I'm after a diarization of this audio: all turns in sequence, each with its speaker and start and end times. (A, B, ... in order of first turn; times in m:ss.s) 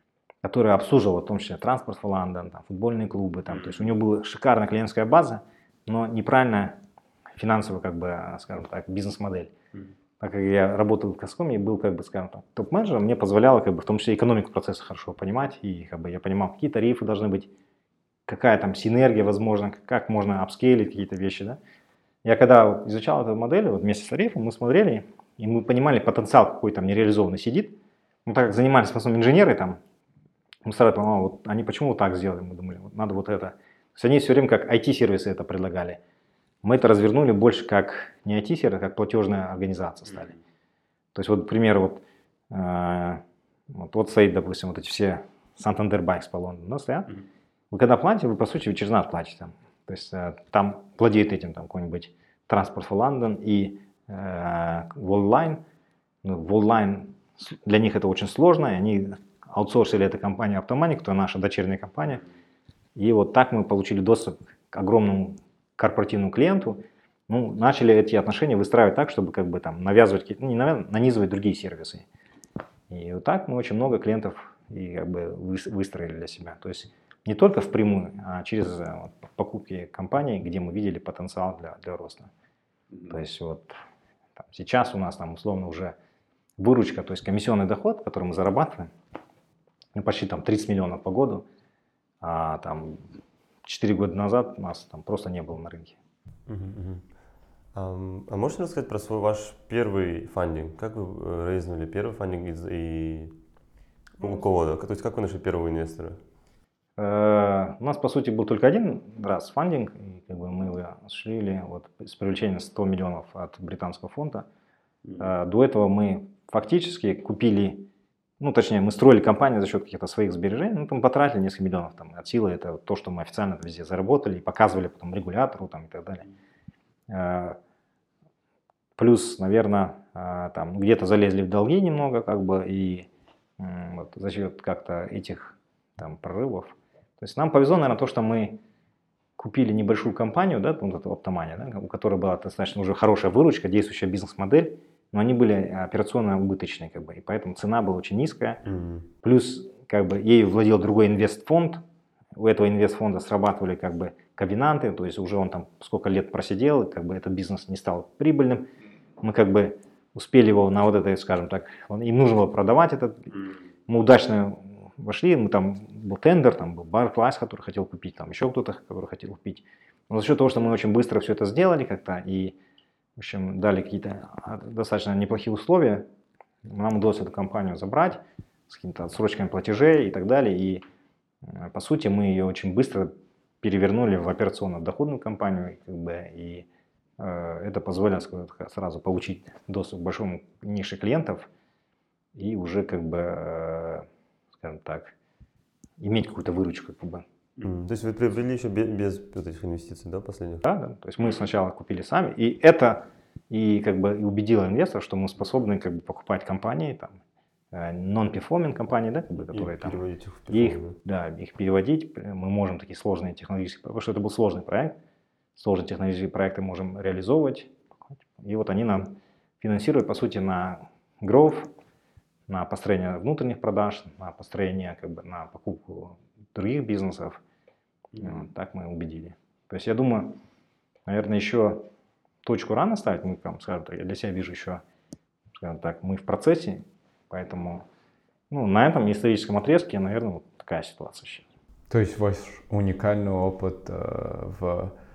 0:00.4-0:06.8 A
0:07.4-0:09.5 A
0:10.2-0:17.5 A
0:18.3-0:21.6 A
0:22.2-0:29.8 A
0:30.6-0:36.0 A
0:36.6-0:40.3 A
0:41.1-0:55.6 A
0:56.2-1:02.2 A
1:03.0-1:12.0 A
1:12.9-1:22.3 A
1:23.1-1:23.7 A
1:24.4-1:25.9 A
1:26.6-1:28.9 A
1:29.9-1:31.4 A
1:32.2-1:33.1 A
1:33.6-1:36.0 A
1:36.5-1:37.1 B
1:37.7-1:43.4 B
1:44.2-1:46.2 B
1:47.0-1:54.4 A
1:55.2-1:57.9 A
1:58.4-2:06.2 A
2:07.1-2:07.6 A
2:09.0-2:13.1 A
2:13.6-2:18.6 A
2:19.4-2:28.6 A
2:28.6-2:29.1 B
2:29.2-2:31.8 A
2:32.3-2:38.7 A
2:39.2-2:52.6 A
2:53.2-2:56.0 A
2:56.6-3:00.8 A
3:01.4-3:06.6 A
3:07.2-3:11.5 A
3:12.4-3:14.0 A
3:14.6-3:15.1 A
3:16.0-3:17.2 A
3:17.6-3:20.6 B
3:20.6-3:27.2 A
3:27.7-3:35.0 A
3:29.5-3:31.0 B
3:35.6-3:37.7 A
3:38.4-3:41.7 A
3:42.5-3:47.4 A
3:48.2-3:50.4 A
3:51.0-3:51.9 A
3:52.4-3:54.8 A
3:55.5-3:57.8 A
3:58.5-4:01.4 A
4:01.9-4:04.9 C